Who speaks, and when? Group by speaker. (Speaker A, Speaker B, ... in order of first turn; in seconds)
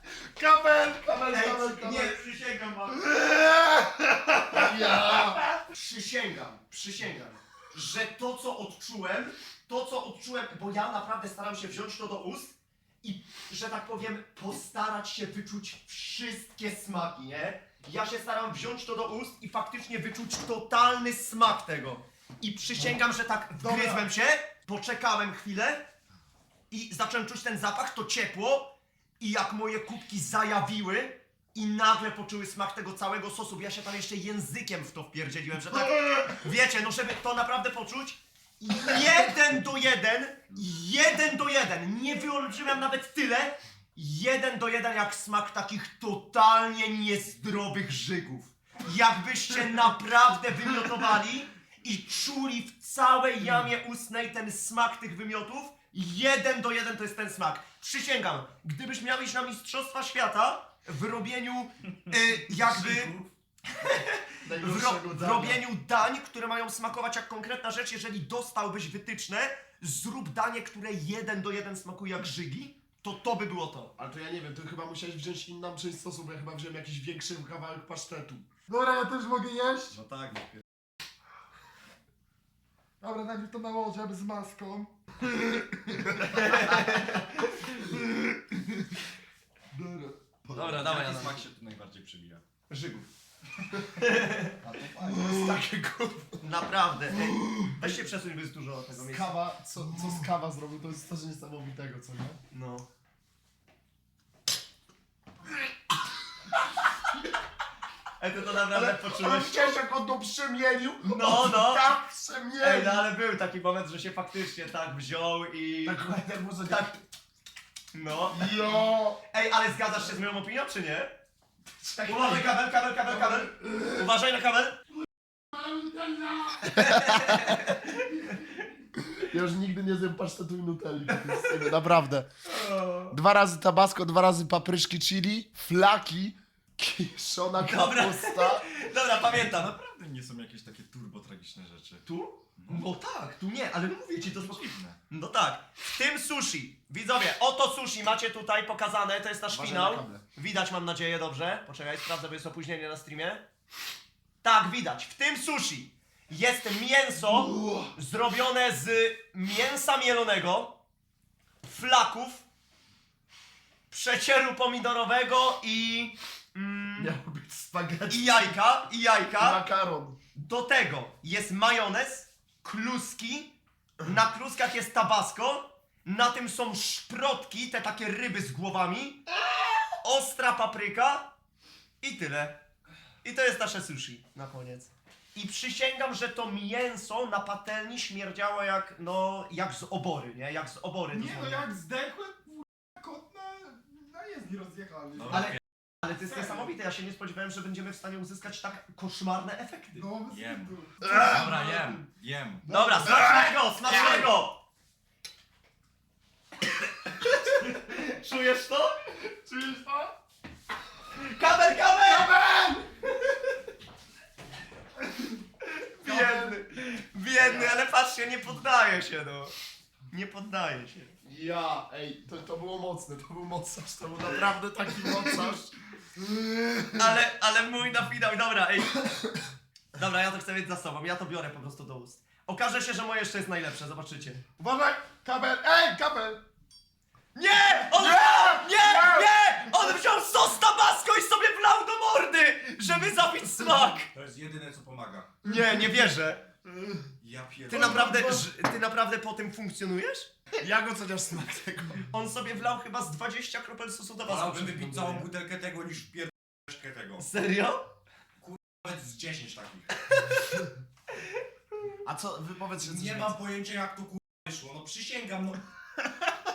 Speaker A: 0.3-2.1, 4.5-5.4, 64.4-65.6, 74.0-78.4, 89.7-90.1, 95.0-96.5, 97.7-97.9, 98.9-102.4, 108.7-113.1, 115.8-117.0, 118.3-119.2, 121.8-124.0, 126.6-127.7, 129.0-132.3, 133.1-138.6, 149.5-150.2, 167.0-168.5, 169.4-170.2, 201.1-201.4, 221.2-226.9, 237.9-239.2, 247.7-248.4, 250.6-252.1, 262.0-263.3
Speaker B: 1.3-3.1, 5.7-25.8, 26.7-63.1, 63.8-73.9, 86.2-87.6, 90.5-91.4, 92.7-93.1, 94.0-94.6, 96.4-99.3, 102.5-102.8, 108.2-109.7, 111.0-111.9, 112.6-116.9, 117.9-118.8, 119.3-121.1, 122.0-124.8, 126.8-128.2, 131.1-131.6, 132.4-133.1, 137.6-139.7, 142.0-153.4, 154.4-160.8, 161.6-162.4, 163.9-167.1, 168.1-169.6, 170.3-179.2, 180.0-181.3, 182.0-182.6, 183.2-191.6, 195.3-200.1, 202.7-204.6, 207.0-209.2, 211.1-212.3, 216.0-219.5, 220.1-221.1, 226.9-229.0, 229.9-234.4, 237.3-244.1, 245.4-246.4, 247.7-250.3, 252.1-255.3, 257.2-257.8, 260.1-260.6
Speaker C: 3.1-4.6, 23.6-24.1, 78.7-80.0, 83.0-86.2, 125.5-126.6, 191.1-195.4, 199.9-201.9, 202.7-204.3, 209.4-210.1, 212.1-212.8, 216.0-216.5, 234.6-236.4
Speaker D: 62.5-63.3, 80.0-80.5, 90.5-92.4, 94.6-95.3, 139.2-142.0, 142.6-142.8, 144.2-145.0, 195.2-195.6, 200.3-202.7, 244.1-245.3, 247.2-248.4, 254.2-257.3, 258.4-260.1, 262.8-265.6